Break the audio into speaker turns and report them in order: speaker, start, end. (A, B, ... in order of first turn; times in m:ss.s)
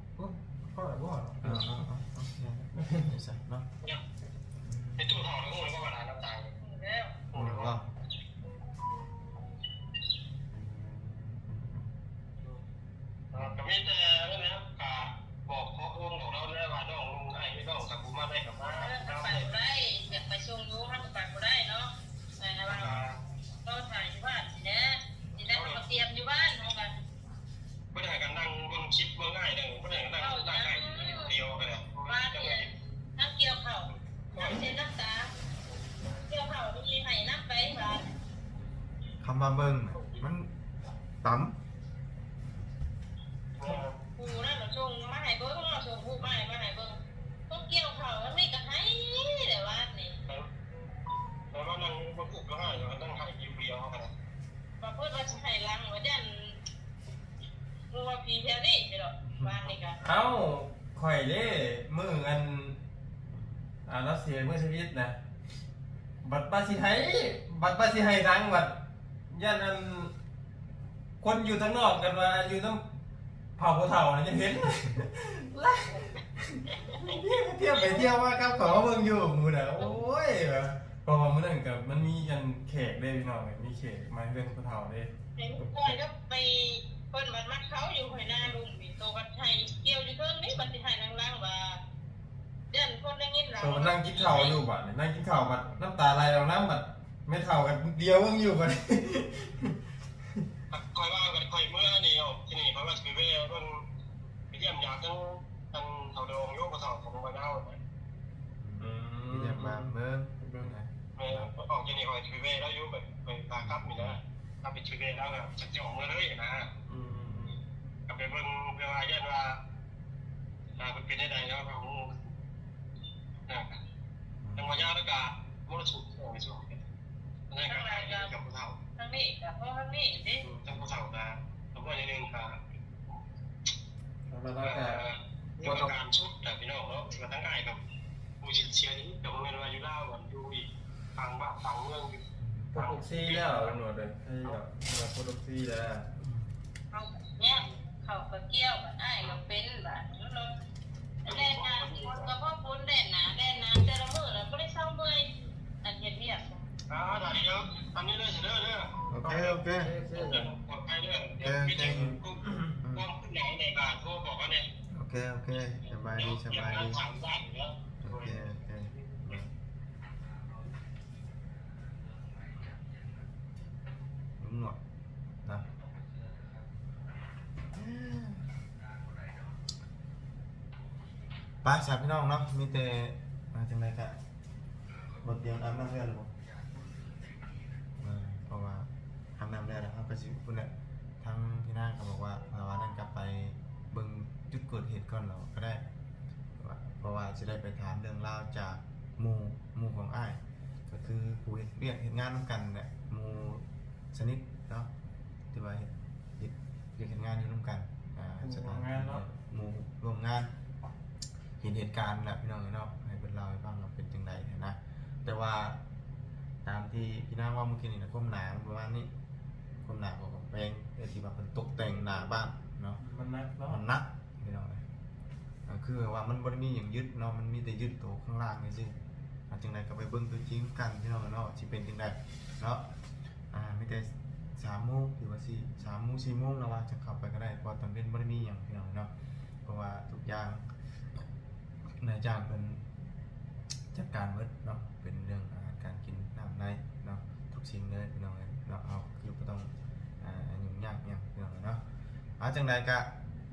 0:00.2-0:01.7 A
0:01.4-0:03.7 B
0:02.7-0:03.1 A
0:04.6-0:05.2 B
0:05.0-0:06.5 C
0:06.6-0:07.2 D
0:07.3-0:07.8 C
0:07.3-0:07.8 B
0:10.5-0:11.9 B
0:13.3-0:13.6 B
0:13.3-0:19.5 C
0:18.8-0:23.0 D
0:22.7-0:23.2 C
0:22.7-0:23.0 B
0:23.6-0:26.9 D
0:25.5-0:25.8 C
0:27.9-0:32.7 C
0:30.2-0:31.3 D
0:32.0-0:35.3 D
0:36.2-0:38.1 D
0:39.2-0:40.5 B
0:41.2-0:41.5 B
0:43.6-0:43.9 C
0:44.2-0:47.0 D
0:47.5-0:50.2 D
0:51.5-0:54.1 C
0:52.6-0:53.0 B
0:54.8-0:56.5 D
0:57.9-1:00.0 D
0:59.2-0:59.6 B
1:00.0-1:02.8 A
1:03.3-1:03.6 B
1:03.8-1:05.1 A
1:06.2-1:10.1 A
1:11.2-1:12.8 A
1:13.6-1:25.9 A
1:17.7-1:18.8 D
1:25.4-1:31.8 D
1:29.6-1:29.9 B
1:32.7-1:34.6 D
1:33.6-1:39.8 A
1:40.7-1:43.8 C
1:44.5-1:47.8 C
1:48.6-1:51.5 B
1:48.8-1:50.7 A
1:51.2-1:56.7 C
1:53.6-1:54.2 B
1:56.9-1:57.6 A
1:57.0-1:57.6 B
1:58.1-1:59.6 C
2:00.8-2:02.3 C
2:03.5-2:03.8 C
2:04.4-2:04.8 B
2:04.6-2:06.8 C
2:07.5-2:08.8 C
2:07.6-2:08.3 D
2:09.0-2:10.4 D
2:10.4-2:12.6 C
2:14.3-2:15.0 A
2:14.6-2:17.8 C
2:15.6-2:15.9 A
2:18.4-2:22.2 C
2:22.4-2:22.7 B
2:22.7-2:26.1 A
2:22.7-2:23.8 C
2:26.2-2:26.5 B
2:26.9-2:30.5 D
2:31.2-2:35.3 D
2:31.2-2:32.3 C
2:35.8-2:36.6 D
2:36.9-2:39.5 C
2:39.1-2:40.0 B
2:39.2-2:40.5 A
2:40.1-2:44.7 C
2:41.4-2:42.2 B
2:42.4-2:42.8 A
2:42.8-2:43.1 B
2:44.9-2:47.0 B
2:46.1-2:48.4 C
2:48.0-2:49.5 B
2:54.4-2:54.8 B
2:57.7-2:58.5 B
3:01.6-3:04.2 B
3:05.2-3:06.3 B
3:08.0-3:15.8 B
3:16.6-3:24.9 B
3:25.5-3:30.5 B
3:28.4-3:29.2 A
3:31.6-3:35.8 B
3:36.6-3:39.1 B
3:39.8-3:43.0 B
3:43.0-3:43.8 A
3:43.7-3:44.8 B
3:45.7-3:48.9 B
3:49.5-3:52.8 B
3:53.5-3:59.1 B
3:59.6-4:00.7 B
4:02.0-4:02.8 B
4:03.9-4:11.8 B
4:12.4-4:13.1 B